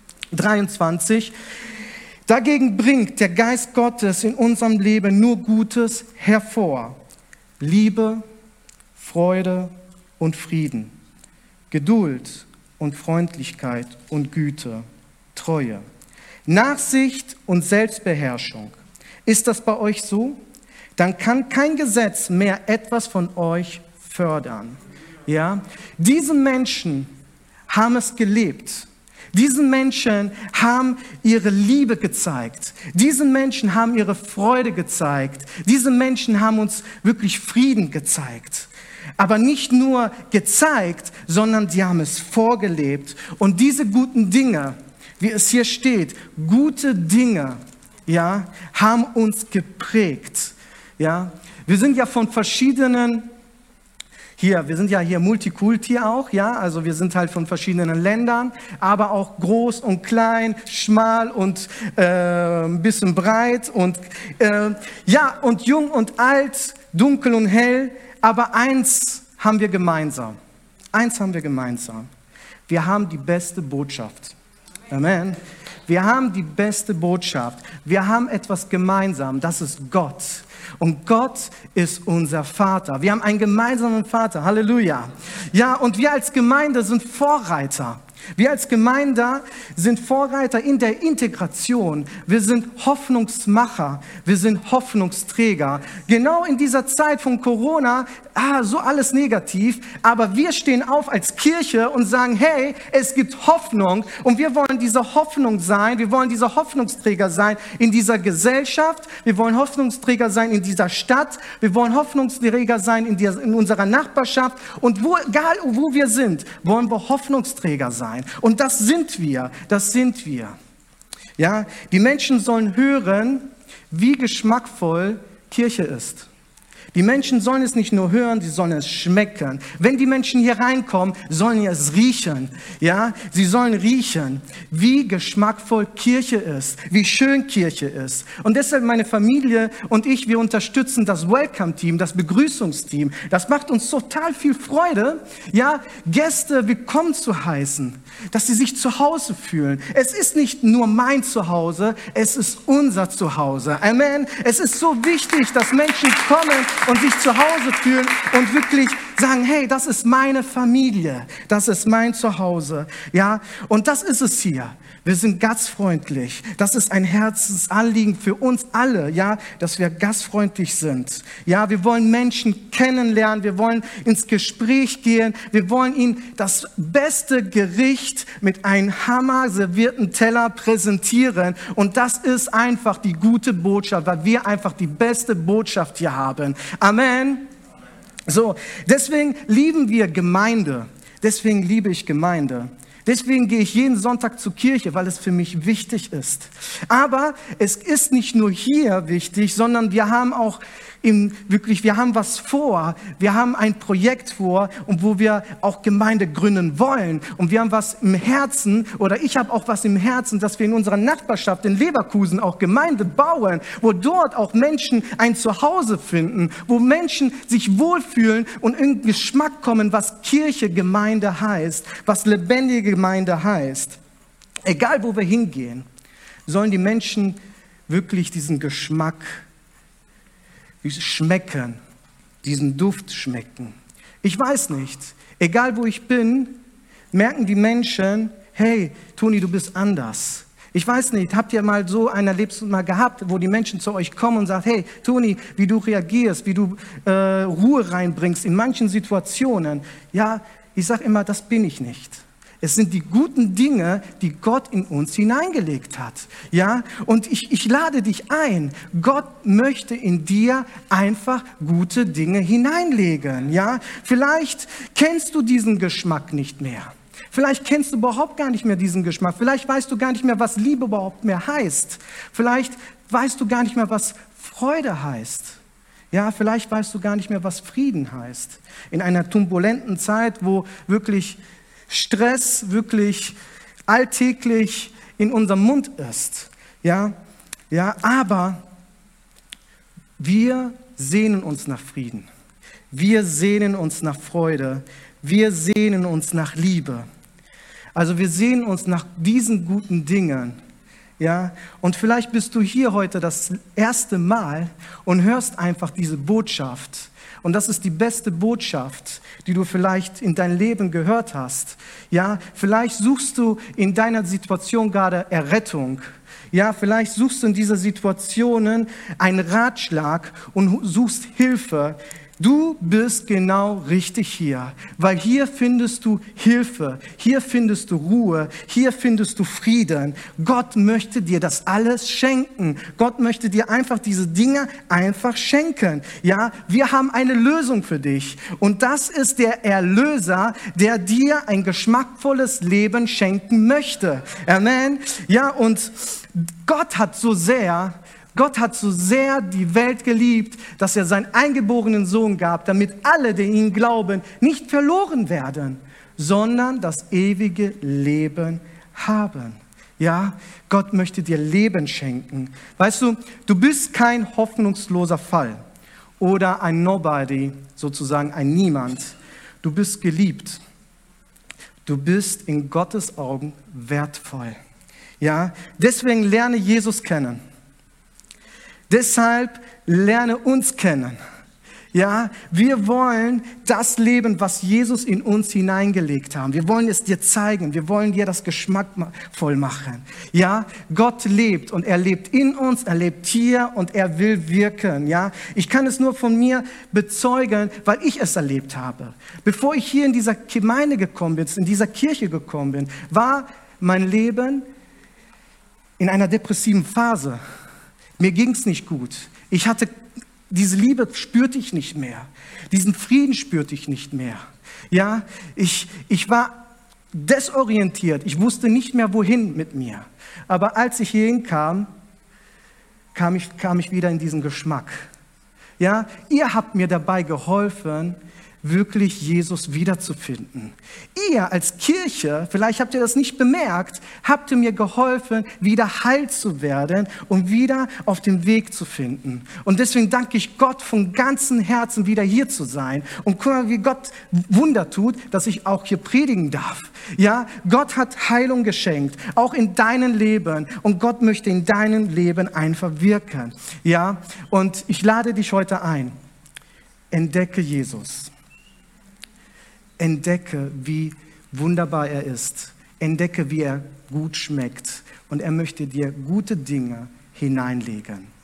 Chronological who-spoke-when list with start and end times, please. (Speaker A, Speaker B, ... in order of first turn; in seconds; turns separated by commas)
Speaker A: 0.3-1.3, Speaker A: 2.3-7.0, Speaker A: 7.6-8.2, Speaker A: 9.0-10.9, Speaker A: 11.7-15.8, Speaker A: 16.4-18.7, Speaker A: 19.2-20.4, Speaker A: 21.0-27.1, Speaker A: 27.7-53.3, Speaker A: 54.4-70.3, Speaker A: 70.9-72.1, Speaker A: 72.7-74.3, Speaker A: 74.9-120.5, Speaker A: 121.4-126.3, Speaker A: 126.9-187.5, Speaker A: 188.3-224.0, Speaker A: 224.6-225.8, Speaker A: 226.4-227.4, Speaker A: 227.9-229.4, Speaker A: 230.8-231.8, Speaker A: 232.4-236.6, Speaker A: 237.1-275.6, Speaker A: 276.1-283.4, Speaker A: 283.9-287.1, Speaker A: 287.7-288.6, Speaker A: 290.2-292.3, Speaker A: 292.9-297.1, Speaker A: 297.9-300.6, Speaker A: 301.2-365.6, Speaker A: 366.2-370.6, Speaker A: 371.9-374.6, Speaker A: 375.2-377.4, Speaker A: 378.9-381.2, Speaker A: 381.9-404.7, Speaker A: 406.0-407.4, Speaker A: 408.2-409.9, Speaker A: 410.5-421.9, Speaker A: 423.1-425.1, Speaker A: 425.8-456.1, Speaker A: 457.1-458.3, Speaker A: 460.0-468.3